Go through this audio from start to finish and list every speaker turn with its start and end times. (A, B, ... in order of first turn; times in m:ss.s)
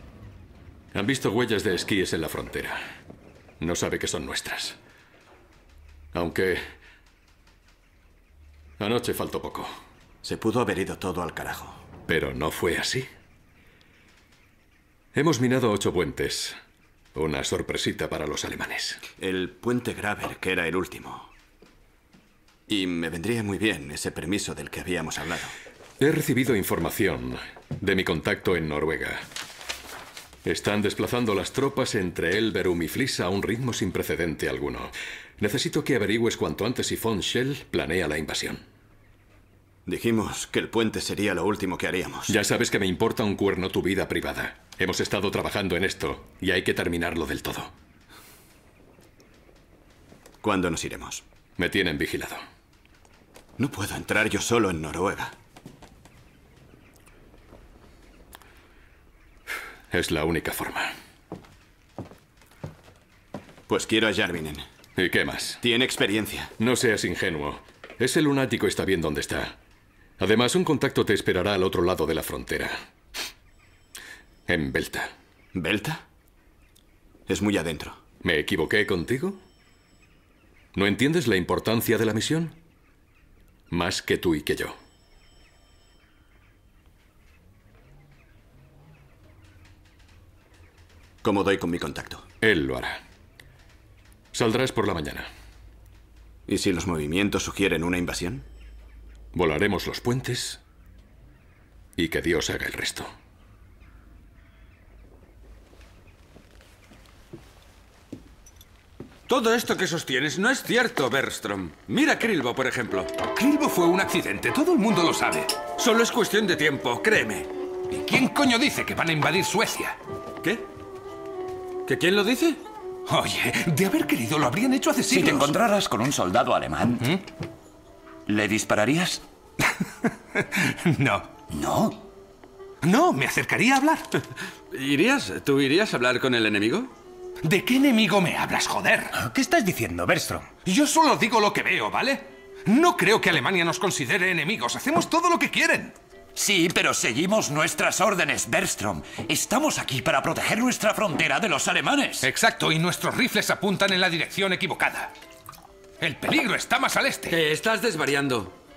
0:00.9-0:02.8 A
0:03.6-0:04.8 A
0:06.1-0:06.7 A
0:08.8-0:09.7 A
0:10.2-0:11.8 B
0:12.1-0:13.1 A
0:15.1-0:16.6 A
0:17.1-0:19.0 A
0:19.2-0:21.3 B
0:22.7-0:25.5 B
0:26.0-0:29.2 A
0:30.4-0:38.6 A
0:39.8-0:42.4 B
0:42.3-0:47.7 A
0:50.4-0:51.2 B
0:51.6-0:52.4 A
0:53.6-0:55.3 B
0:59.9-1:00.9 A
1:03.7-1:04.6 B
1:05.0-1:05.6 A
1:05.6-1:06.5 B
1:06.6-1:09.6 A
1:10.2-1:12.8 A
1:14.5-1:15.1 A
1:15.5-1:16.0 B
1:17.3-1:18.0 B
1:18.2-1:19.4 A
1:20.7-1:22.6 A
1:23.7-1:24.7 A
1:31.2-1:32.2 B
1:32.4-1:33.0 A
1:34.3-1:35.3 A
1:36.5-1:38.4 B
1:39.3-1:40.6 A
1:42.0-1:43.1 A
1:49.3-1:53.1 C
1:53.3-1:55.6 D
1:55.8-1:57.5 C
1:57.9-2:00.0 D
2:01.9-2:02.6 C
2:03.1-2:05.6 D
2:05.1-2:07.0 E
2:08.3-2:09.2 E
2:11.5-2:12.0 E
2:12.8-2:14.1 D
2:14.7-2:16.9 C
2:17.4-2:25.9 D
2:26.4-2:32.3 E
2:32.2-2:35.1 D
2:36.0-2:37.4 D
2:37.3-2:38.5 C